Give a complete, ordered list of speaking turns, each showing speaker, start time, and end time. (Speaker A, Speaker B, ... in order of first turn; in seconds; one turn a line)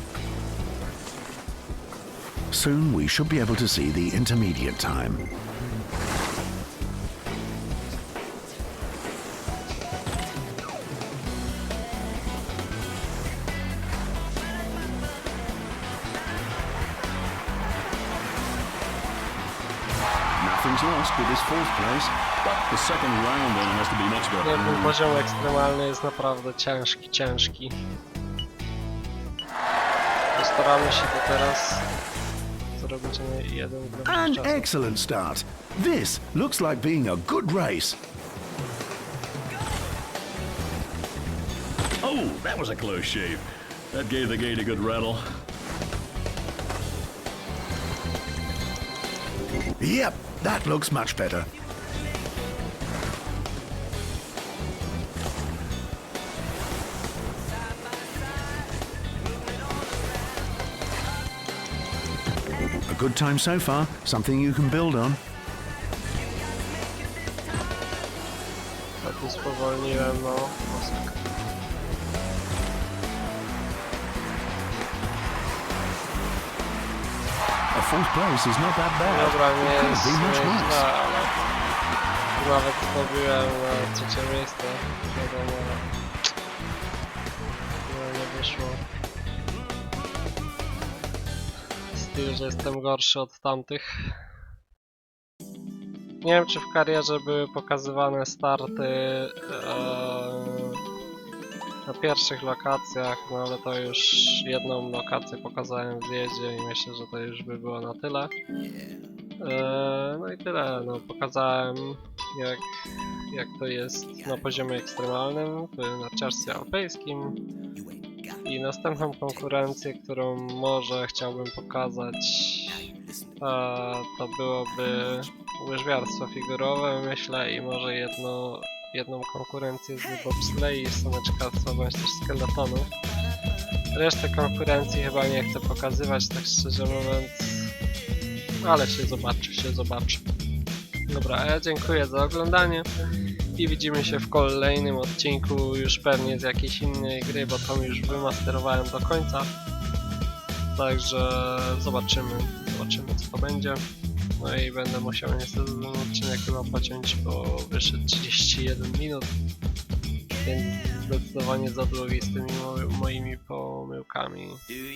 Speaker A: 2.5-5.2
Speaker A: 20.4-22.2
Speaker B: 22.4-25.0
Speaker C: 24.4-27.8
Speaker C: 30.3-31.9
Speaker C: 32.7-34.6
Speaker A: 34.0-38.0
Speaker B: 42.0-45.2
Speaker A: 49.8-51.5
Speaker A: 62.9-65.2
Speaker C: 69.0-71.2
Speaker A: 77.7-80.9
Speaker C: 79.0-81.4
Speaker C: 82.4-85.9
Speaker C: 87.8-88.8
Speaker C: 91.9-94.2
Speaker C: 96.2-100.8
Speaker C: 101.8-108.3
Speaker C: 109.4-112.7
Speaker C: 113.3-117.4
Speaker C: 118.4-132.9
Speaker C: 133.9-137.7
Speaker C: 138.6-140.2
Speaker C: 141.1-142.9
Speaker C: 143.6-149.5
Speaker C: 150.8-153.8
Speaker C: 154.4-159.3
Speaker C: 160.4-164.7